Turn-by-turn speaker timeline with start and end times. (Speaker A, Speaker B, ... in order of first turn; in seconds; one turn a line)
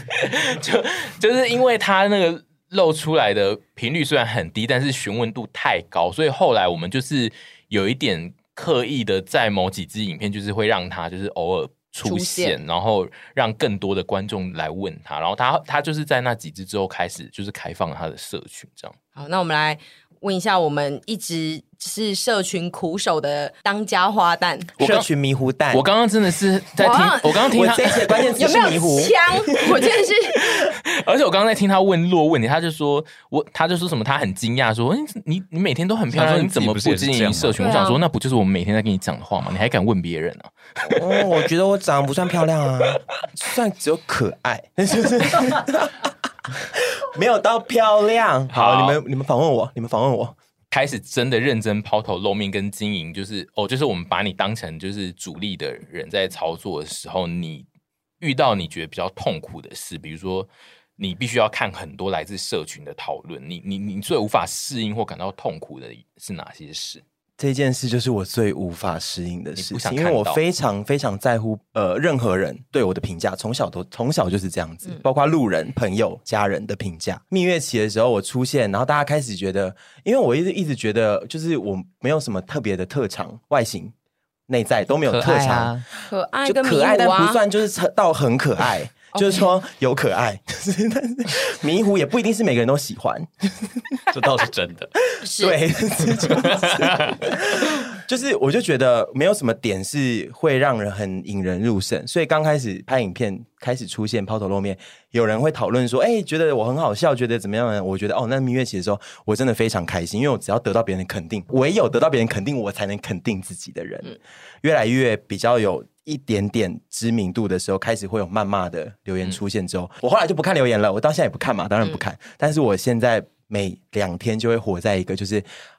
Speaker A: 0.2-19.0
Speaker B: 12.1-12.6
Speaker B: 19.2-24.7
Speaker C: 24.8-25.9
Speaker A: 24.8-25.1
Speaker A: 25.7-28.0
Speaker B: 26.8-27.5
Speaker C: 27.5-29.9
Speaker B: 28.3-30.6
Speaker A: 30.9-40.5
Speaker D: 36.1-37.8
Speaker B: 37.6-38.0
Speaker C: 40.9-50.4
Speaker A: 48.5-49.0
Speaker A: 50.7-57.7
Speaker A: 58.2-67.0
Speaker C: 67.4-83.9
Speaker A: 69.6-70.4
Speaker C: 84.5-85.8
Speaker D: 85.1-85.8
Speaker B: 86.1-87.4
Speaker C: 86.5-94.0
Speaker B: 89.1-89.5
Speaker D: 94.1-94.9
Speaker B: 95.2-95.6
Speaker C: 95.2-125.5
Speaker D: 96.2-97.2